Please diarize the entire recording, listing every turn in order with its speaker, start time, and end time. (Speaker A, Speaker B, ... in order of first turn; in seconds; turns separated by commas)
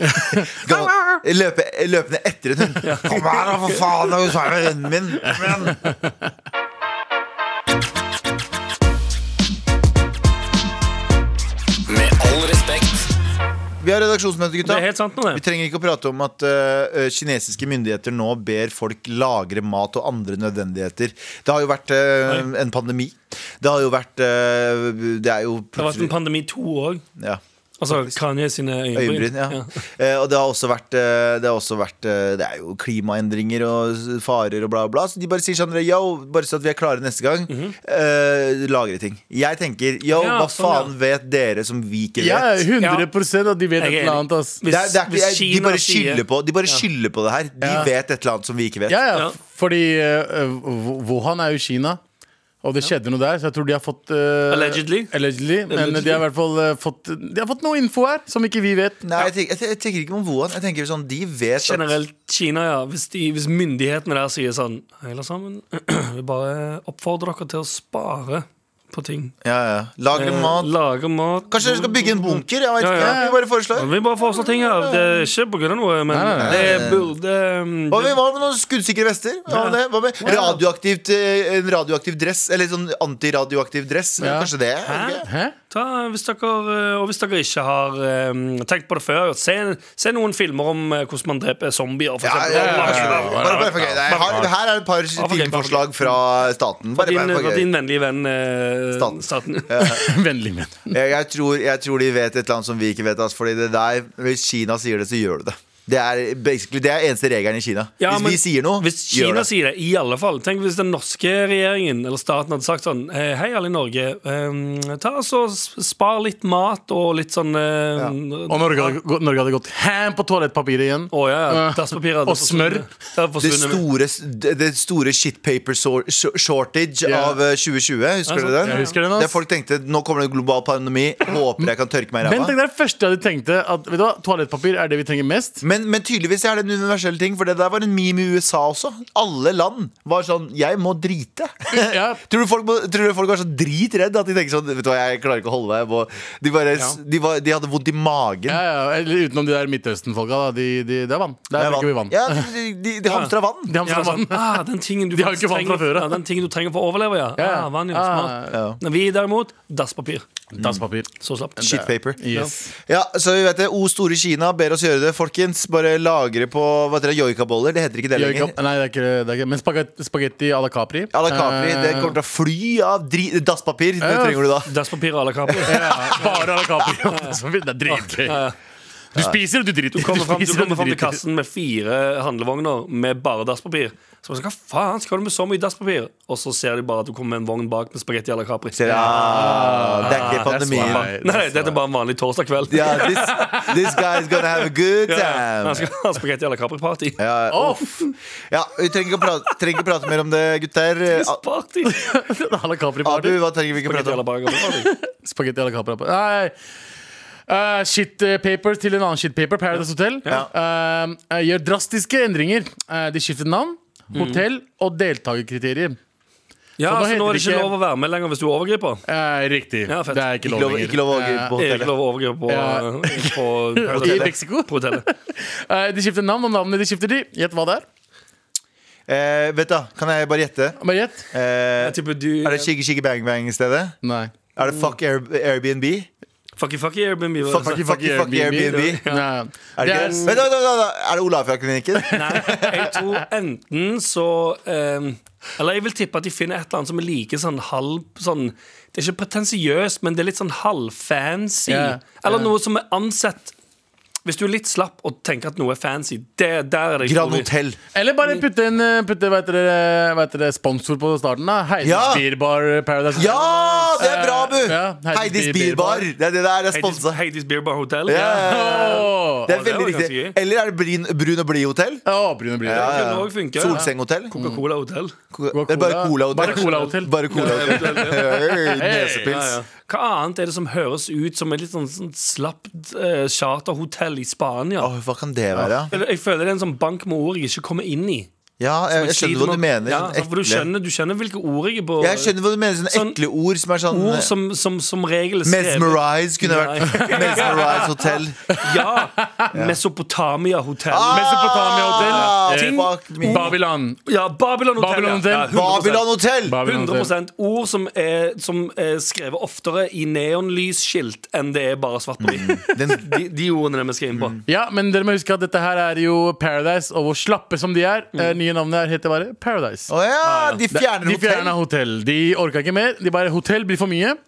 Speaker A: 0.1-0.6, Speaker B: 0.3-5.8, Speaker C: 2.8-4.2, Speaker A: 5.8-6.1, Speaker B: 13.8-26.1, Speaker C: 14.6-15.4, Speaker C: 25.8-27.0, Speaker B: 27.2-28.2, Speaker C: 27.8-29.7, Speaker B: 28.9-42.7, Speaker C: 37.5-37.7, Speaker C: 40.1-40.9, Speaker A: 42.2-44.6, Speaker C: 42.8-43.1, Speaker C: 43.8-46.8, Speaker B: 44.7-49.1, Speaker A: 47.6-47.9, Speaker A: 48.9-52.0, Speaker A: 52.6-59.0, Speaker C: 54.5-55.1, Speaker C: 55.7-56.2, Speaker B: 59.0-62.0, Speaker C: 61.6-69.3, Speaker B: 69.4-70.7, Speaker C: 70.1-78.2, Speaker B: 71.5-75.3, Speaker A: 73.0-73.3, Speaker A: 76.1-77.0, Speaker B: 76.4-77.1, Speaker B: 77.9-85.3, Speaker C: 79.5-80.6, Speaker A: 84.2-84.5, Speaker C: 84.8-94.5, Speaker A: 85.2-85.5, Speaker B: 92.2-97.7, Speaker A: 92.5-94.5, Speaker C: 95.1-96.2, Speaker C: 96.9-99.8, Speaker B: 98.9-100.1, Speaker A: 99.8-100.9, Speaker B: 100.9-109.5, Speaker C: 108.0-119.0, Speaker A: 118.5-122.9, Speaker C: 121.1-123.8, Speaker B: 123.4-132.6, Speaker A: 127.0-127.4, Speaker C: 128.3-129.0, Speaker A: 128.6-129.4, Speaker A: 132.2-135.6, Speaker B: 135.6-148.6, Speaker A: 141.7-142.2, Speaker A: 148.5-152.5, Speaker B: 151.6-153.8, Speaker A: 153.7-156.2, Speaker C: 153.8-160.2, Speaker A: 157.4-158.6, Speaker B: 158.5-158.8, Speaker A: 160.5-162.7, Speaker B: 160.6-160.8, Speaker C: 161.2-161.6, Speaker B: 161.6-162.2, Speaker B: 162.8-168.5, Speaker A: 168.1-172.2, Speaker B: 171.1-174.7, Speaker A: 174.0-174.5, Speaker C: 174.7-176.4, Speaker B: 175.5-177.0, Speaker A: 175.6-178.5, Speaker C: 177.1-178.5, Speaker A: 179.1-181.2, Speaker C: 179.9-197.2, Speaker B: 188.7-191.1, Speaker A: 188.9-191.8, Speaker B: 192.7-195.9, Speaker A: 193.2-193.7, Speaker B: 197.2-201.4, Speaker A: 197.5-197.8, Speaker C: 201.1-202.0, Speaker A: 201.8-203.4, Speaker B: 203.0-204.2, Speaker C: 203.8-204.9, Speaker A: 204.6-206.5, Speaker A: 207.5-216.0, Speaker C: 214.1-214.4, Speaker C: 216.8-219.0, Speaker A: 216.8-217.7, Speaker A: 219.1-221.5, Speaker C: 219.9-220.2, Speaker B: 220.4-221.9, Speaker C: 221.6-225.1, Speaker A: 222.5-227.8, Speaker B: 223.9-224.3, Speaker B: 229.1-230.8, Speaker A: 230.8-231.2, Speaker B: 231.3-234.0, Speaker C: 231.8-232.7, Speaker A: 234.0-234.3, Speaker B: 234.6-236.1, Speaker C: 236.6-237.8, Speaker B: 237.4-239.0, Speaker A: 237.6-240.4, Speaker C: 238.7-239.2, Speaker B: 239.8-242.9, Speaker C: 239.8-240.3, Speaker A: 242.1-243.0, Speaker C: 242.1-253.5, Speaker A: 251.7-252.5, Speaker C: 254.2-257.5, Speaker B: 257.0-257.8, Speaker A: 257.9-263.4, Speaker B: 261.8-262.2, Speaker B: 263.1-267.2, Speaker C: 263.2-264.5, Speaker A: 264.0-266.1, Speaker C: 266.7-270.4, Speaker B: 268.1-272.1, Speaker A: 268.4-269.5, Speaker A: 272.1-273.0, Speaker B: 272.6-274.3, Speaker C: 272.7-275.1, Speaker B: 275.3-279.6, Speaker A: 275.5-279.4, Speaker C: 276.4-278.6, Speaker C: 279.2-284.9, Speaker B: 284.8-285.9, Speaker A: 285.6-285.9, Speaker C: 285.9-288.3, Speaker B: 288.6-290.7, Speaker C: 288.9-292.3, Speaker B: 292.0-294.3, Speaker C: 292.9-293.2, Speaker C: 293.9-314.4, Speaker B: 295.4-298.6, Speaker A: 296.9-297.8, Speaker A: 298.5-299.5, Speaker B: 299.5-299.8, Speaker B: 300.9-303.5, Speaker A: 301.1-304.0, Speaker A: 304.8-305.6, Speaker B: 305.5-306.6, Speaker A: 306.5-307.1, Speaker B: 312.2-313.2, Speaker B: 314.1-314.4, Speaker A: 314.5-319.9, Speaker B: 319.9-321.6, Speaker C: 320.2-320.6, Speaker A: 320.7-324.2